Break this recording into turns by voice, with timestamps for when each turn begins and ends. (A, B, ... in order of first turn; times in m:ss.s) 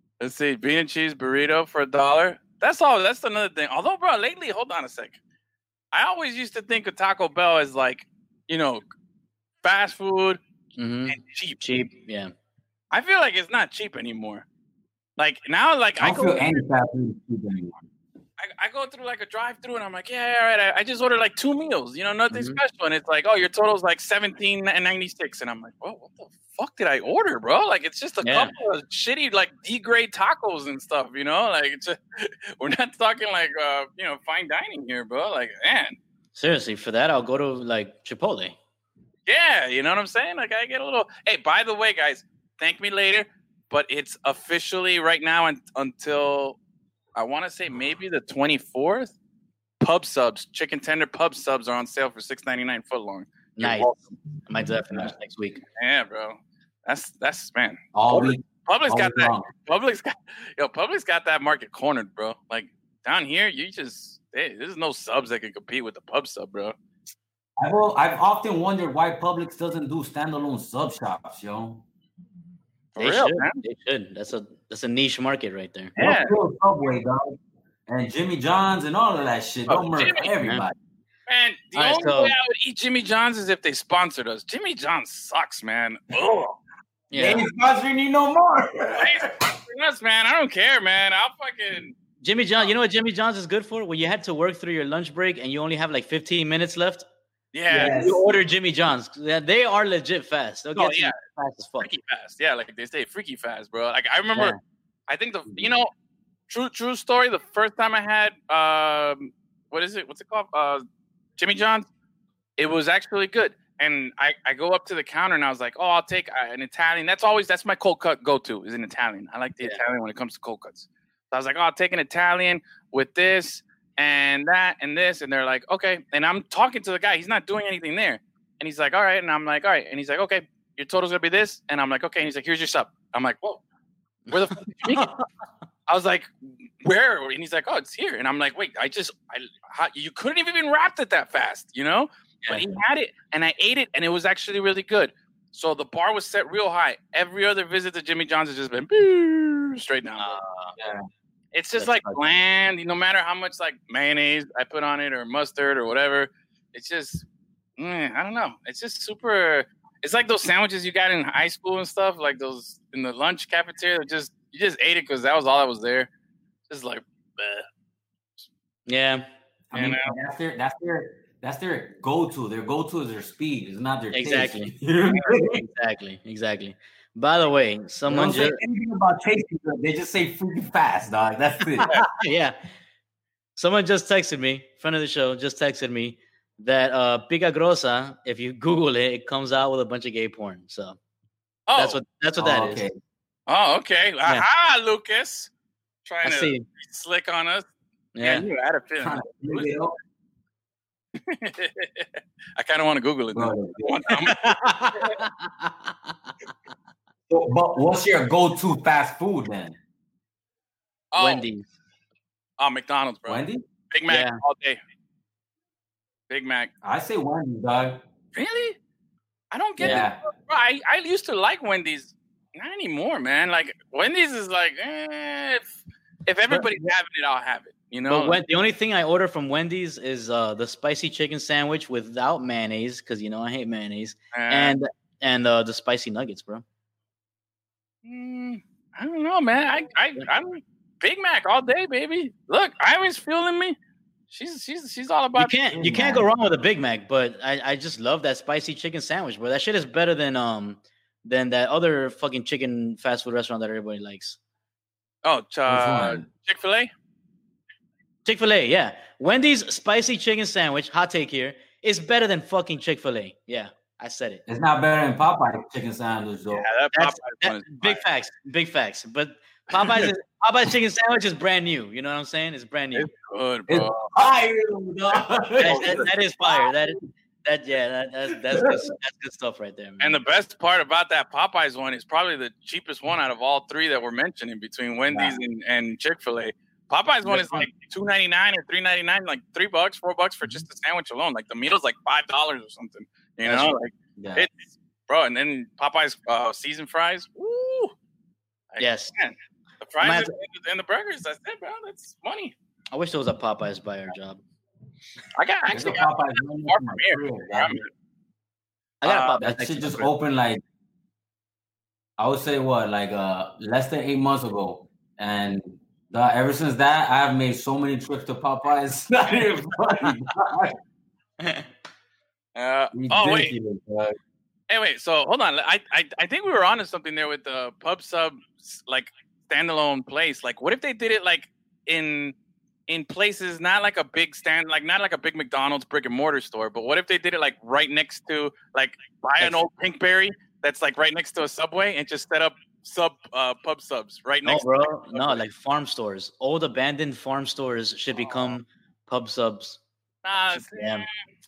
0:00.2-0:05.2 A
0:05.9-0:08.8 A
0:09.6-0:10.4 A
0:10.8-0:12.3 B
0:11.1-0:11.7 A
0:12.9-0:14.4 A
0:15.2-0:16.6 A
0:16.0-0:17.9 C
0:18.4-0:36.0 A
0:22.3-0:22.6 B
0:28.2-0:28.5 B
0:36.3-0:38.6 B
0:39.3-0:46.6 A
0:47.1-0:49.1 A
0:49.8-0:54.0 A
0:53.6-0:55.6 B
0:55.8-1:06.8 A
0:57.9-0:59.5 C
1:07.6-1:11.8 C
1:12.9-1:13.6 A
1:13.0-1:15.9 B
1:16.0-1:16.3 A
1:16.0-1:20.8 C
1:19.7-1:20.3 A
1:21.3-1:26.6 A
1:21.7-1:22.3 B
1:27.1-1:27.4 B
1:27.1-1:29.3 C
1:28.9-1:31.9 A
1:32.2-1:37.0 B
1:37.5-1:38.0 A
1:37.7-1:38.2 C
1:37.7-1:41.9 B
1:40.7-1:41.2 A
1:41.8-1:44.6 A
1:45.1-1:45.9 A
1:46.5-1:50.8 A
1:51.4-1:51.9 A
1:52.6-2:13.6 A
2:14.3-2:15.1 B
2:14.3-2:15.1 A
2:15.9-2:16.3 A
2:16.8-2:30.4 A
2:30.2-2:30.8 B
2:30.8-2:31.0 C
2:31.5-2:37.2 A
2:31.8-2:32.2 B
2:37.8-2:46.1 A
2:46.7-2:47.7 A
2:48.9-2:49.3 B
2:49.7-2:55.6 C
2:49.7-2:50.2 A
2:54.1-2:58.6 B
2:58.1-3:01.9 C
3:01.8-3:02.6 B
3:03.6-3:11.0 B
3:11.7-3:12.0 A
3:11.8-3:12.8 B
3:12.4-3:13.0 C
3:13.5-3:15.5 A
3:16.0-3:17.6 A
3:16.2-3:16.6 B
3:18.1-3:18.4 B
3:18.2-3:19.7 A
3:19.0-3:20.0 C
3:21.2-3:25.1 A
3:23.3-3:24.0 C
3:24.4-3:26.1 B
3:27.3-3:29.8 C
3:31.1-3:31.4 A
3:31.2-3:31.7 B
3:32.6-3:34.8 A
3:33.2-3:33.6 C
3:34.1-3:34.4 B
3:36.3-3:36.7 A
3:36.8-3:38.0 C
3:38.3-3:38.8 A
3:39.5-3:45.7 A
3:39.8-3:40.0 B
3:39.8-3:40.2 C
3:46.3-3:48.4 A
3:48.1-3:56.6 B
3:54.3-3:54.8 A
3:58.0-4:03.8 A
4:04.3-4:05.5 A
4:05.4-4:14.4 B
4:05.7-4:06.2 C
4:15.2-4:16.9 A
4:15.7-4:16.2 C
4:18.2-4:24.4 B
4:24.5-4:26.6 C
4:26.5-4:28.0 A
4:26.9-4:33.1 B
4:29.8-4:30.1 A
4:32.9-4:34.1 A
4:33.7-4:36.8 C
4:35.6-4:40.2 B
4:38.4-4:38.8 C
4:40.0-4:57.9 A
4:45.1-4:45.4 C
4:47.2-4:47.7 C
4:53.4-4:53.7 B
4:54.2-4:54.5 C
4:58.7-5:02.5 A
4:58.8-4:59.1 B
5:00.0-5:00.3 B
5:02.9-5:04.4 B
5:05.4-5:07.9 A
5:05.7-5:07.8 C
5:09.0-5:10.1 B
5:09.0-5:09.4 A
5:09.4-5:10.6 C
5:12.2-5:20.8 C
5:22.5-5:23.5 A
5:22.9-5:24.2 C
5:24.7-5:32.3 A
5:32.9-5:45.4 A
5:44.4-5:49.8 B
5:48.2-5:48.6 A
5:50.2-5:51.1 A
5:50.5-5:51.0 B